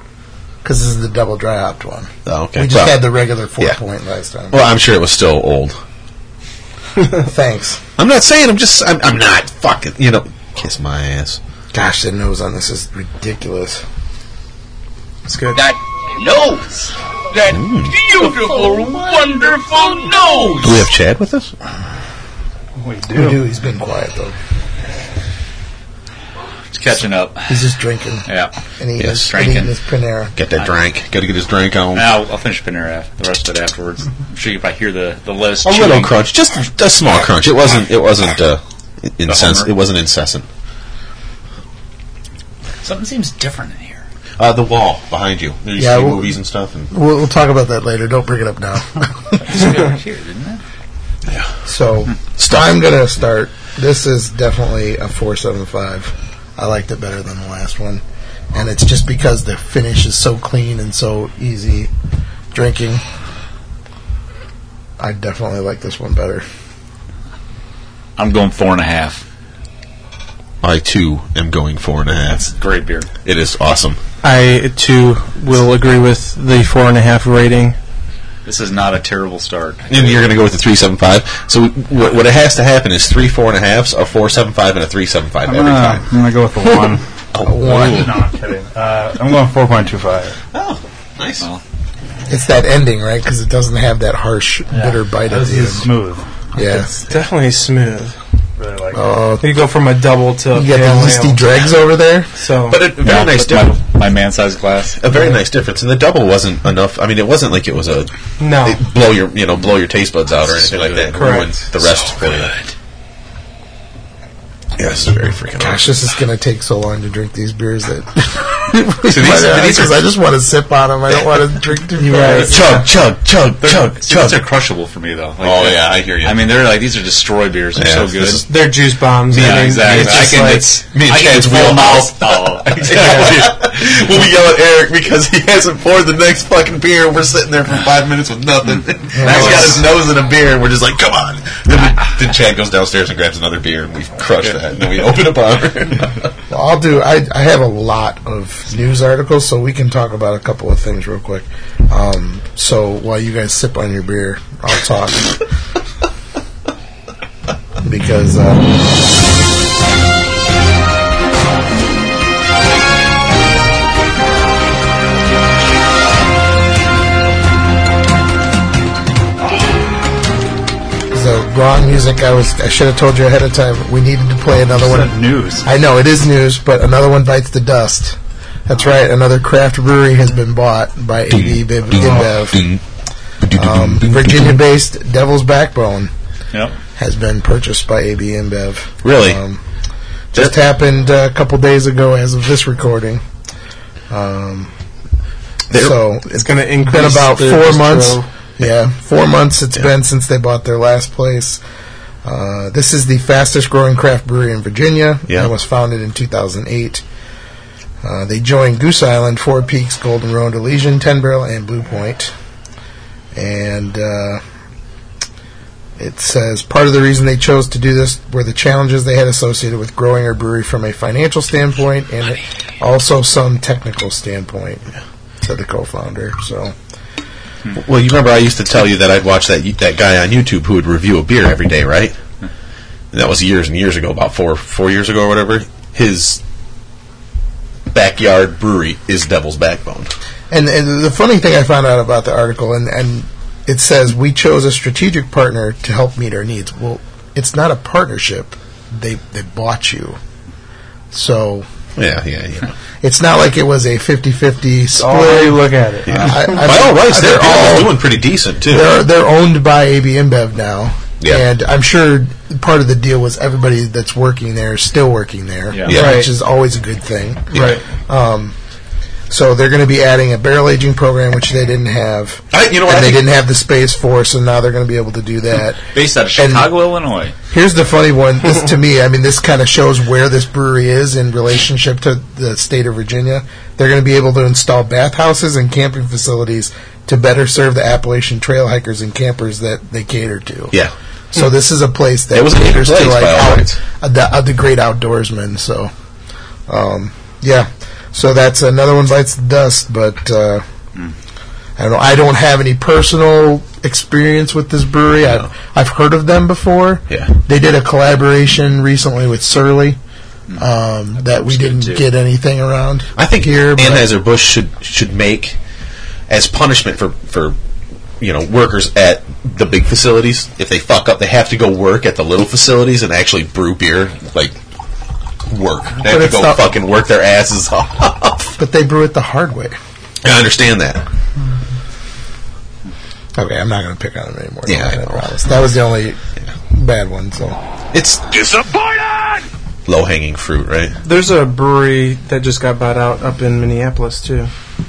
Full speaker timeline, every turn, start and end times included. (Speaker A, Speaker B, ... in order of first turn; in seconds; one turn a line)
Speaker A: 0.6-4.7
Speaker B: 2.3-3.1
Speaker B: 4.5-5.8
Speaker A: 7.1-7.8
Speaker B: 8.0-11.4
Speaker A: 11.7-13.8
Speaker C: 15.3-15.6
Speaker D: 15.5-20.9
Speaker B: 17.5-18.0
Speaker B: 20.6-21.5
Speaker E: 22.8-23.4
Speaker A: 23.1-24.4
Speaker F: 26.7-27.6
Speaker A: 27.5-28.3
Speaker F: 28.3-28.5
Speaker A: 28.8-30.3
Speaker B: 29.0-29.3
Speaker F: 29.1-29.7
Speaker B: 30.4-32.1
Speaker F: 31.9-36.2
Speaker B: 35.6-40.5
Speaker F: 39.3-39.7
Speaker F: 42.8-44.0
Speaker B: 44.4-46.9
Speaker A: 45.8-46.4
Speaker A: 46.9-49.6
Speaker F: 49.5-50.6
Speaker A: 51.6-61.9
Speaker B: 52.4-52.7
Speaker A: 62.5-63.0
Speaker A: 65.0-66.4
Speaker F: 68.2-69.2
Speaker B: 70.6-72.5
Speaker F: 72.3-73.1
Speaker B: 73.2-74.0
Speaker C: 74.2-77.8
Speaker F: 78.5-80.3
Speaker B: 79.9-86.1
Speaker E: 85.5-87.0
Speaker B: 87.3-88.1
Speaker A: 87.4-88.1
Speaker E: 87.6-90.4
Speaker B: 90.5-91.5
Speaker A: 92.3-95.9
Speaker E: 94.7-96.2
Speaker A: 96.5-96.9
Speaker C: 96.7-98.2
Speaker E: 98.6-99.0
Speaker A: 98.9-99.6
Speaker C: 99.4-101.4
Speaker A: 100.5-102.3
Speaker C: 102.4-102.8
Speaker B: 102.7-103.8
Speaker F: 103.0-105.0
Speaker B: 105.0-112.5
Speaker C: 108.4-108.8
Speaker F: 110.5-112.7
Speaker C: 111.1-111.5
Speaker B: 114.8-115.8
Speaker A: 115.6-122.6
Speaker B: 119.1-120.0
Speaker C: 122.0-122.8
Speaker F: 122.2-122.7
Speaker B: 122.4-124.4
Speaker F: 123.6-128.4
Speaker B: 125.4-126.5
Speaker B: 127.8-128.7
Speaker C: 128.5-130.7
Speaker B: 129.3-146.3
Speaker F: 129.3-133.6
Speaker C: 133.0-133.3
Speaker F: 138.7-139.9
Speaker A: 139.1-139.8
Speaker A: 146.5-155.4
Speaker A: 157.8-158.7
Speaker A: 171.1-182.7
Speaker E: 174.7-175.6
Speaker B: 181.3-182.8
Speaker B: 183.4-184.5
Speaker A: 183.5-186.1
Speaker A: 187.0-189.6
Speaker B: 189.0-189.4
Speaker A: 190.3-193.2
Speaker A: 194.1-194.7
Speaker B: 195.7-196.0
Speaker A: 195.7-201.6
Speaker C: 196.3-198.3
Speaker A: 202.2-207.0
Speaker A: 208.0-212.3
Speaker A: 213.3-214.4
Speaker A: 216.0-224.9
Speaker A: 225.4-226.7
Speaker B: 227.7-232.2
Speaker B: 233.1-236.4
Speaker B: 237.9-240.1
Speaker A: 240.5-250.2
Speaker A: 251.1-251.7
Speaker B: 252.0-252.7
Speaker A: 253.0-268.6
Speaker E: 254.9-256.6
Speaker B: 256.1-258.9
Speaker B: 265.9-266.2
Speaker C: 265.9-266.3
Speaker B: 267.5-267.8
Speaker C: 267.5-267.8
Speaker A: 269.3-276.7
Speaker B: 272.5-273.3
Speaker F: 275.9-277.3
Speaker A: 277.5-290.8
Speaker A: 291.3-295.9
Speaker B: 292.3-293.7
Speaker A: 296.7-300.6
Speaker A: 301.8-310.0
Speaker A: 310.6-314.1
Speaker F: 311.2-312.1
Speaker B: 313.2-315.6
Speaker B: 316.3-317.6
Speaker B: 318.2-324.6
Speaker B: 325.5-328.6
Speaker A: 326.0-326.8
Speaker A: 328.6-329.8
Speaker B: 330.2-331.0
Speaker A: 333.4-336.2
Speaker B: 334.7-335.2
Speaker A: 336.7-337.6
Speaker B: 337.9-338.5
Speaker D: 338.4-339.4
Speaker B: 339.9-341.0
Speaker C: 341.0-344.5